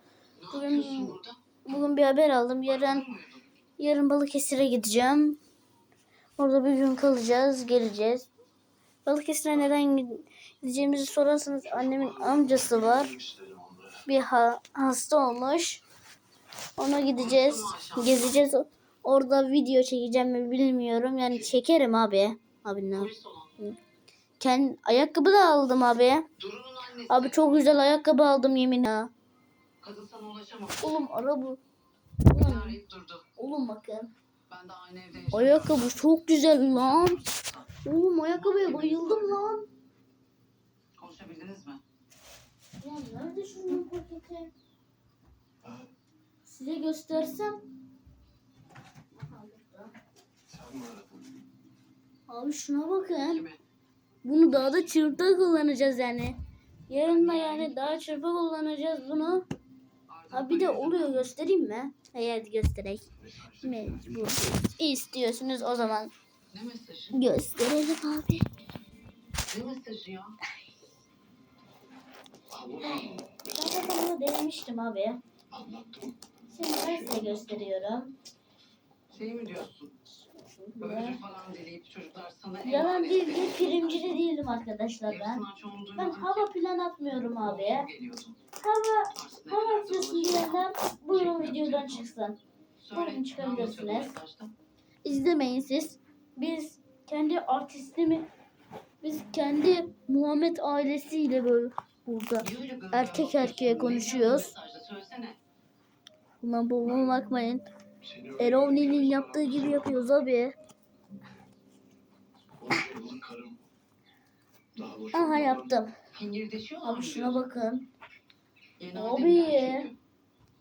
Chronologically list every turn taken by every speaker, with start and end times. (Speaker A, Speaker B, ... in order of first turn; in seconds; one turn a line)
Speaker A: 0.4-1.4
Speaker B: 0.5-3.0
Speaker A: 2.7-3.5
Speaker B: 3.8-5.4
Speaker B: 6.4-8.3
Speaker B: 9.1-13.2
Speaker C: 11.9-14.0
Speaker B: 14.1-15.8
Speaker B: 16.8-23.8
Speaker A: 17.1-18.4
Speaker A: 22.9-23.5
Speaker B: 24.4-26.3
Speaker A: 26.4-27.7
Speaker B: 27.1-29.1
Speaker A: 29.8-31.1
Speaker B: 30.8-31.6
Speaker B: 32.3-32.8
Speaker A: 32.3-33.3
Speaker B: 33.4-34.1
Speaker A: 34.5-36.0
Speaker B: 35.3-37.2
Speaker A: 36.7-37.7
Speaker B: 37.8-39.7
Speaker A: 38.3-39.4
Speaker A: 41.0-41.8
Speaker B: 42.8-44.5
Speaker B: 46.5-47.6
Speaker B: 49.1-50.0
Speaker C: 50.5-51.2
Speaker B: 52.3-53.5
Speaker A: 53.2-53.6
Speaker B: 54.2-56.4
Speaker B: 56.9-59.5
Speaker A: 57.0-58.2
Speaker A: 60.1-61.3
Speaker B: 60.3-63.1
Speaker C: 63.3-64.3
Speaker B: 63.6-66.1
Speaker A: 66.5-67.2
Speaker B: 67.1-68.5
Speaker A: 69.5-70.4
Speaker C: 72.5-73.4
Speaker B: 72.8-75.2
Speaker C: 75.6-76.0
Speaker A: 75.6-76.1
Speaker B: 76.5-78.2
Speaker C: 76.7-77.6
Speaker A: 79.1-80.0
Speaker B: 80.2-81.2
Speaker A: 80.8-84.2
Speaker B: 82.6-85.4
Speaker A: 85.1-86.5
Speaker B: 86.0-87.9
Speaker A: 87.4-88.4
Speaker B: 88.6-92.4
Speaker A: 89.1-92.1
Speaker A: 92.8-94.5
Speaker B: 92.9-94.1
Speaker B: 95.0-98.3
Speaker B: 99.0-104.5
Speaker A: 102.4-105.4
Speaker B: 106.4-107.6
Speaker C: 108.0-110.0
Speaker B: 108.4-110.5
Speaker C: 112.6-113.6
Speaker C: 114.8-115.7
Speaker B: 115.1-115.9
Speaker A: 116.1-117.5
Speaker B: 116.8-117.9
Speaker A: 118.8-120.0
Speaker B: 118.9-119.9